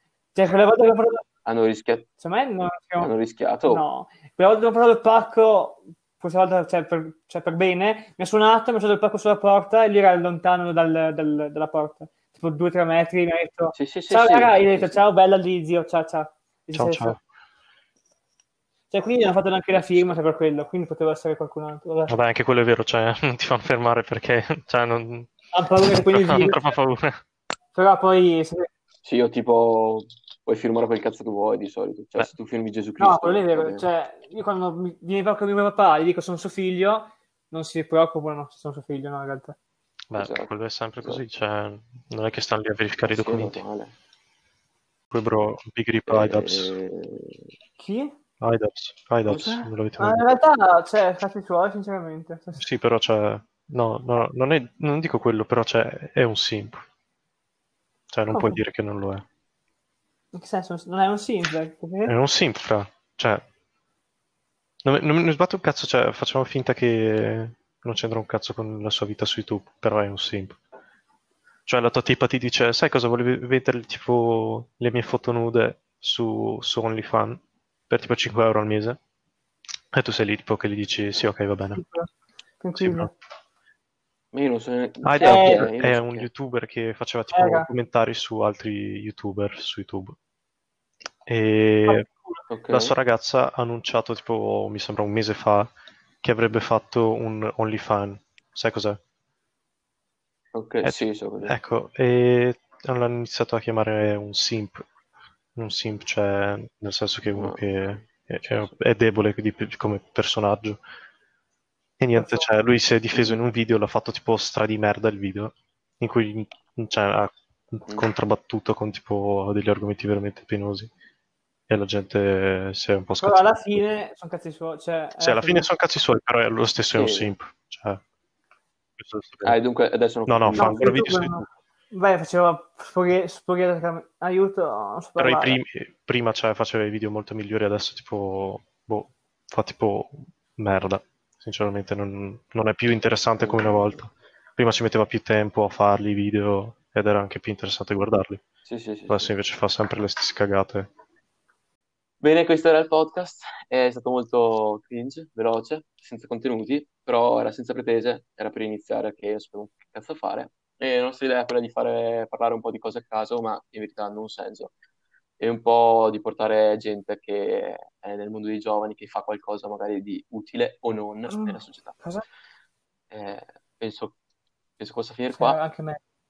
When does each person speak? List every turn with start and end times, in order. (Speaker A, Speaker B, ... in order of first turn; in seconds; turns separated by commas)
Speaker A: 0.3-1.2, Speaker B: 1.4-2.1, Speaker A: 2.2-3.1, Speaker B: 3.0-3.9, Speaker A: 3.7-17.2, Speaker B: 13.7-15.0, Speaker C: 16.7-17.2, Speaker A: 18.9-22.1, Speaker B: 19.8-20.2, Speaker C: 22.1-25.3, Speaker A: 25.5-26.7, Speaker C: 25.9-27.2, Speaker A: 27.7-28.7, Speaker B: 29.0-33.9, Speaker A: 33.0-39.6, Speaker C: 40.1-43.6, Speaker B: 40.2-40.5, Speaker B: 43.0-43.9, Speaker C: 45.1-46.7, Speaker B: 46.1-47.4, Speaker A: 47.8-48.1, Speaker C: 48.4-50.2, Speaker B: 49.2-49.7, Speaker A: 50.0-52.6, Speaker C: 52.6-56.9, Speaker C: 58.1-59.2, Speaker A: 58.3-58.6, Speaker A: 60.3-62.1, Speaker C: 62.1-63.4, Speaker C: 64.8-70.6, Speaker C: 71.7-79.0, Speaker C: 79.9-81.8, Speaker A: 81.7-83.1, Speaker C: 82.8-83.1, Speaker B: 84.3-86.3, Speaker C: 85.0-90.2, Speaker A: 85.2-85.7, Speaker A: 87.3-87.7, Speaker C: 91.3-92.1, Speaker A: 91.9-92.4, Speaker B: 92.5-92.9, Speaker C: 92.7-95.7, Speaker C: 96.2-99.0, Speaker B: 100.5-101.5, Speaker C: 100.8-104.8, Speaker C: 105.6-110.8, Speaker B: 107.3-107.6, Speaker C: 112.0-120.9, Speaker A: 112.2-112.5, Speaker B: 113.1-113.4, Speaker C: 121.7-123.6, Speaker A: 123.2-125.7, Speaker C: 125.2-128.0, Speaker B: 126.9-127.3, Speaker C: 129.0-129.6, Speaker B: 129.4-130.9, Speaker C: 130.3-131.4, Speaker A: 130.6-135.6, Speaker C: 135.2-148.4, Speaker B: 143.4-143.8, Speaker B: 148.7-149.3, Speaker C: 149.1-150.9, Speaker B: 152.2-164.7, Speaker B: 165.4-171.9, Speaker A: 171.3-172.2, Speaker B: 173.1-174.2, Speaker B: 174.8-175.6, Speaker A: 175.3-176.0